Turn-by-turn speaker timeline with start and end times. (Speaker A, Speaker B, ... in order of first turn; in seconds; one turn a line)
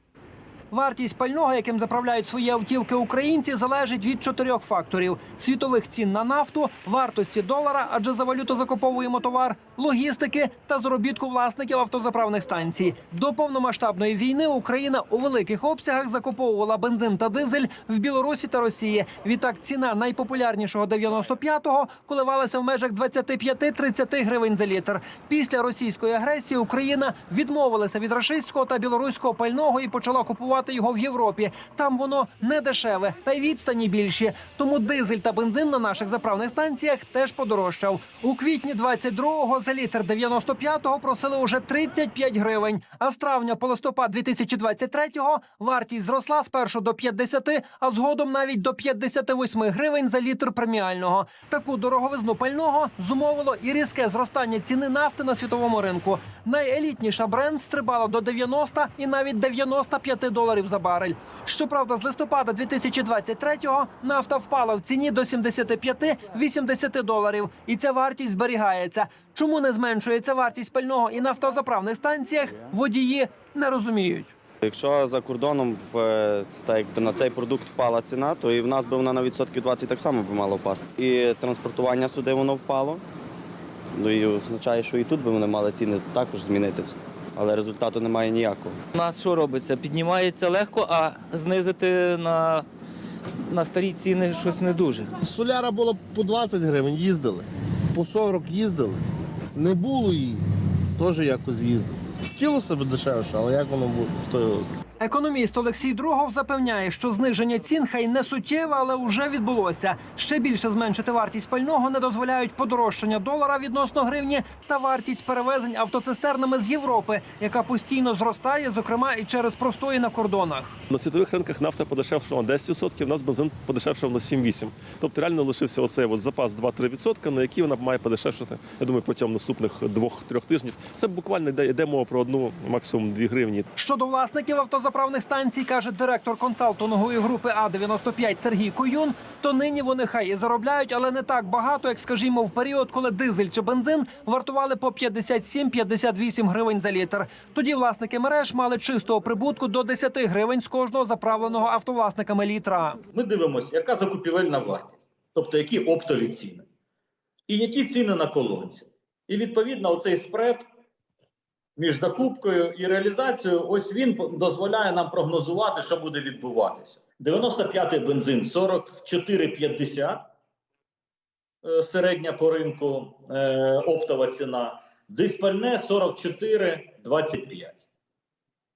Speaker A: 0.7-74.3
Speaker B: 74.6-83.0
Speaker B: 84.0-88.8
Speaker C: 89.0-92.7
Speaker C: 93.4-95.1
Speaker D: 95.2-99.0
Speaker D: 99.5-100.4
Speaker D: 101.0-104.8
Speaker A: 105.0-120.7
Speaker E: 120.9-133.7
Speaker A: 133.8-153.0
Speaker F: 153.1-156.7
Speaker F: 157.5-160.7
Speaker F: 161.8-170.3
Speaker F: 171.6-177.8